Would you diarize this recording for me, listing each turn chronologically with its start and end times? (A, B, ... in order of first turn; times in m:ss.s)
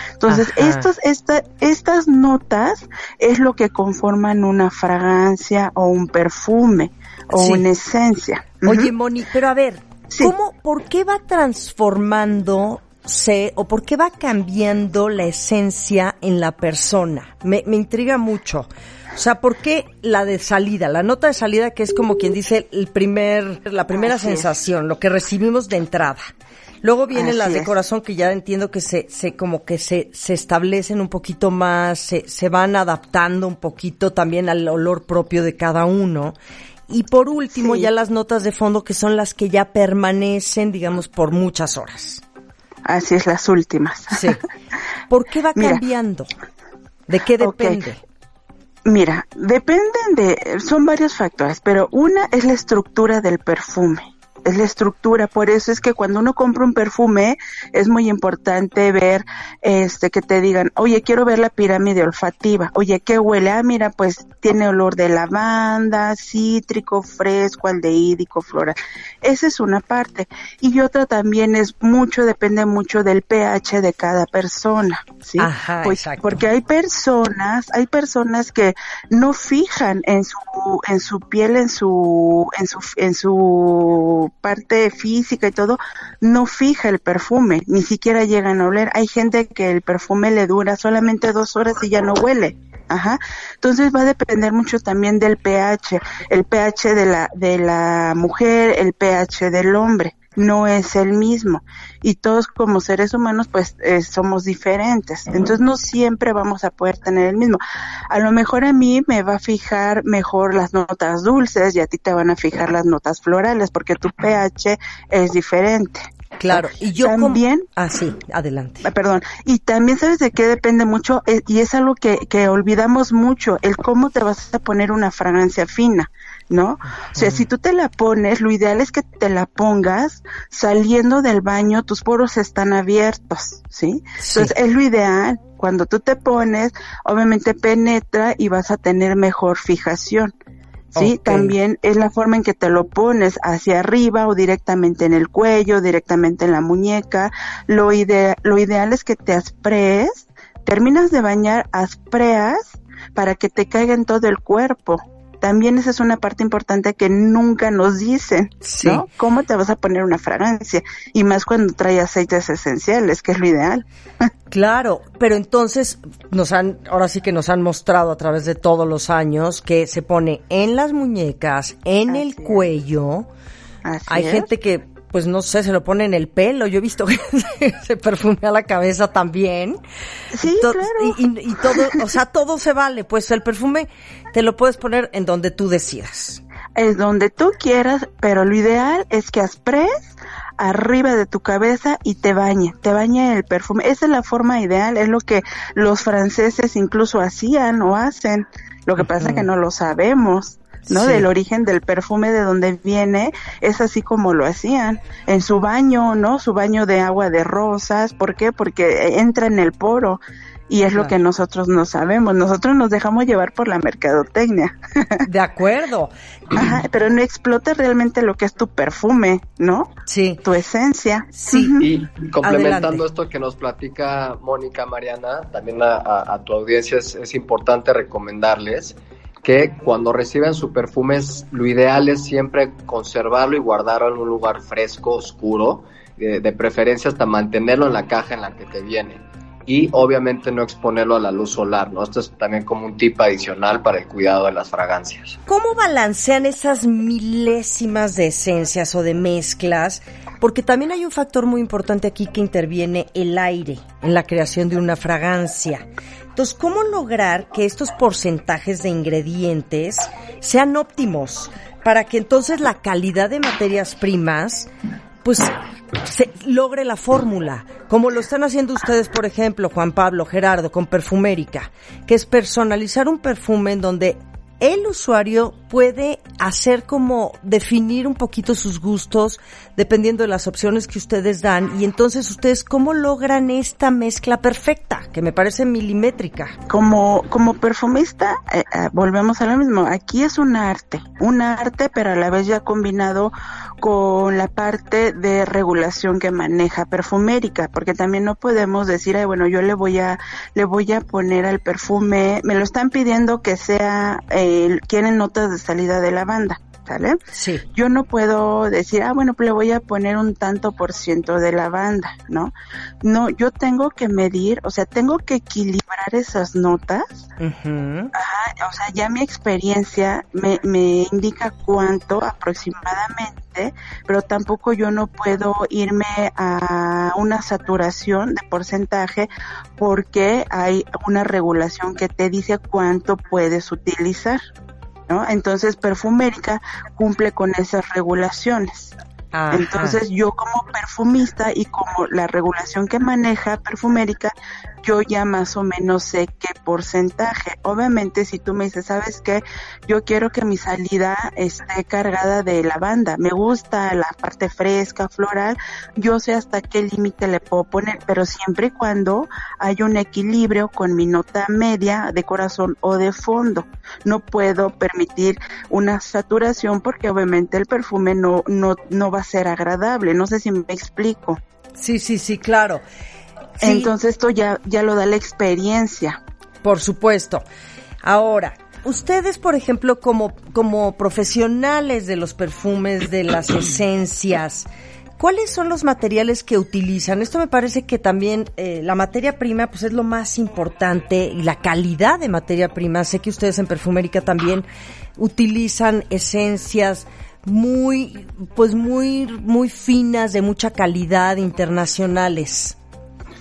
0:00.2-0:08.9 A
0:00.3-0:00.9 B
0:07.3-0:07.6 B
0:08.6-0:26.3 B
0:23.9-0:24.5 A
0:26.8-0:36.4 B
0:27.1-0:27.7 A
0:36.9-0:42.2 B
0:37.5-0:37.9 A
0:42.9-0:44.3 A
0:44.1-0:44.4 B
0:45.1-0:46.3 B
0:45.6-0:45.8 A
0:47.1-0:48.0 B
0:47.4-0:47.8 A
0:48.8-1:57.7 A
1:15.4-1:16.4 B
1:56.4-1:58.9 B
1:58.8-2:20.3 A
2:07.0-2:07.5 B
2:14.2-2:14.5 B
2:21.0-2:21.6 B
2:21.0-2:44.3 A
2:38.6-2:39.0 B
2:44.5-2:53.3 B
2:52.1-2:52.6 A
2:53.8-2:54.5 A
2:54.1-2:59.8 B
3:00.3-3:01.2 A
3:00.4-3:06.4 B
3:01.7-3:02.0 A
3:06.8-3:35.2 A
3:19.2-3:19.5 B
3:20.9-3:21.3 B
3:35.2-3:36.7 B
3:36.6-3:39.9 A
3:40.1-3:40.4 B
3:40.4-3:41.9 A
3:41.4-3:41.8 B
3:41.8-4:05.4 C
3:42.4-3:43.0 B
4:05.5-4:24.7 B
4:25.2-4:46.6 B
4:46.7-5:07.2 A
5:07.3-5:07.6 B
5:07.7-5:17.2 A
5:17.4-5:18.1 B
5:18.1-5:34.4 A
5:35.1-5:38.9 A
5:39.3-5:40.0 B
5:39.5-6:11.4 A
6:11.8-6:12.8 B
6:13.6-6:13.9 B
6:13.6-6:16.2 A
6:16.6-6:17.4 B
6:18.0-6:24.7 B
6:25.2-6:34.7 B
6:35.2-6:42.8 B